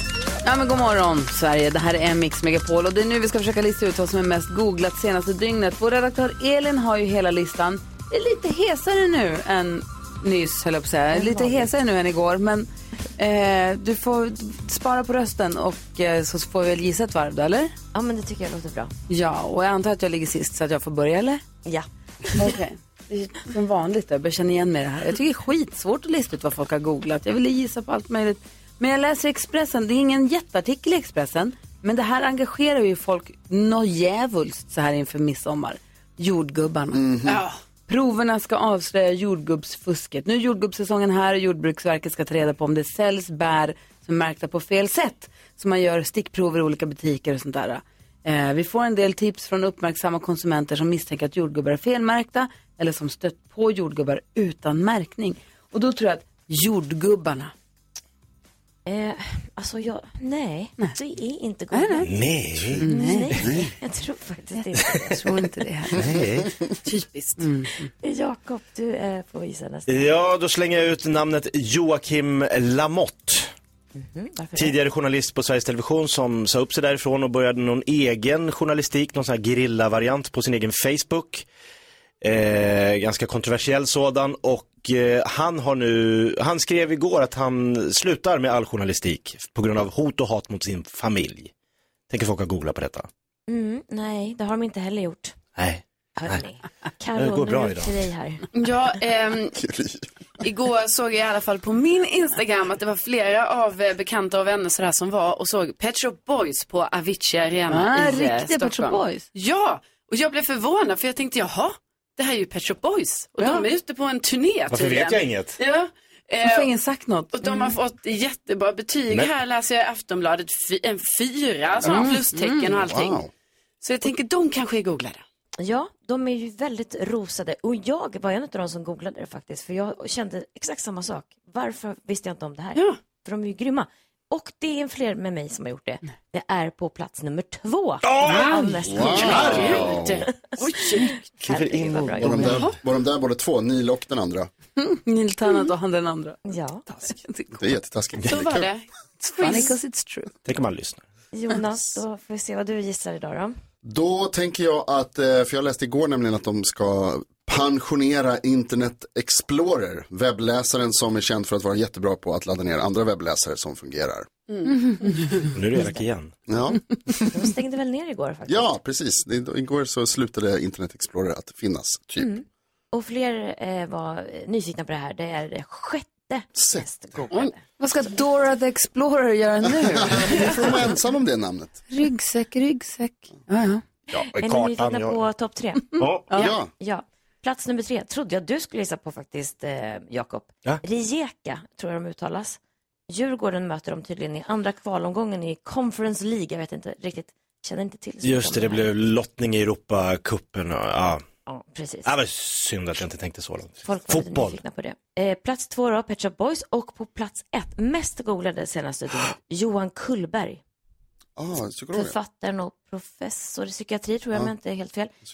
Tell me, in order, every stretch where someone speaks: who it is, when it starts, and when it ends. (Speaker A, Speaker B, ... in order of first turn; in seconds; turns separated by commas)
Speaker A: 0.4-17.8, Speaker B: 11.2-11.6, Speaker B: 17.9-18.9, Speaker A: 19.1-21.4, Speaker B: 21.6-22.5, Speaker A: 22.4-37.0, Speaker C: 36.9-37.4, Speaker D: 37.3-37.6, Speaker A: 37.9-57.5, Speaker B: 58.9-62.1, Speaker A: 61.7-62.1, Speaker E: 62.0-62.9, Speaker A: 62.8-63.3, Speaker B: 62.9-65.2, Speaker C: 63.4-63.7, Speaker A: 64.6-66.0, Speaker E: 65.9-66.5, Speaker A: 66.8-67.9, Speaker B: 68.0-70.2, Speaker E: 69.9-73.5, Speaker B: 74.0-74.8, Speaker E: 74.5-81.5, Speaker E: 82.2-91.5, Speaker E: 92.1-93.1, Speaker B: 93.5-95.4, Speaker E: 95.6-96.4, Speaker B: 96.2-98.4, Speaker E: 97.2-98.0, Speaker D: 98.5-99.6, Speaker C: 99.6-100.1, Speaker D: 100.4-116.7, Speaker A: 107.7-109.3, Speaker A: 113.4-113.7, Speaker E: 114.7-115.6, Speaker A: 116.4-117.7, Speaker D: 117.3-123.2, Speaker A: 121.8-122.7, Speaker C: 122.8-123.3, Speaker D: 123.8-125.2, Speaker B: 125.6-139.8, Speaker E: 138.0-139.8, Speaker D: 138.2-141.2, Speaker A: 138.3-138.6, Speaker C: 138.9-140.3, Speaker B: 140.8-142.6, Speaker A: 140.9-141.2, Speaker C: 142.2-144.5, Speaker E: 142.2-142.6, Speaker A: 144.8-147.6, Speaker B: 146.5-146.8, Speaker C: 147.6-148.7, Speaker D: 148.2-149.8, Speaker A: 149.4-150.4, Speaker E: 150.5-151.0, Speaker B: 151.3-153.6, Speaker C: 153.8-164.3, Speaker D: 164.5-165.5, Speaker A: 164.7-165.3, Speaker E: 165.5-166.3, Speaker C: 166.5-167.3, Speaker B: 167.3-168.7, Speaker C: 168.5-172.3, Speaker B: 172.2-177.6, Speaker C: 176.6-177.5, Speaker A: 177.8-180.7, Speaker C: 179.8-181.8, Speaker A: 181.9-183.8, Speaker E: 184.1-185.2, Speaker B: 184.3-198.9, Speaker E: 186.0-186.3, Speaker C: 186.4-186.7, Speaker E: 198.2-201.2, Speaker B: 201.5-202.1, Speaker E: 202.1-204.6, Speaker B: 203.8-210.6, Speaker C: 211.4-212.2, Speaker B: 211.9-215.1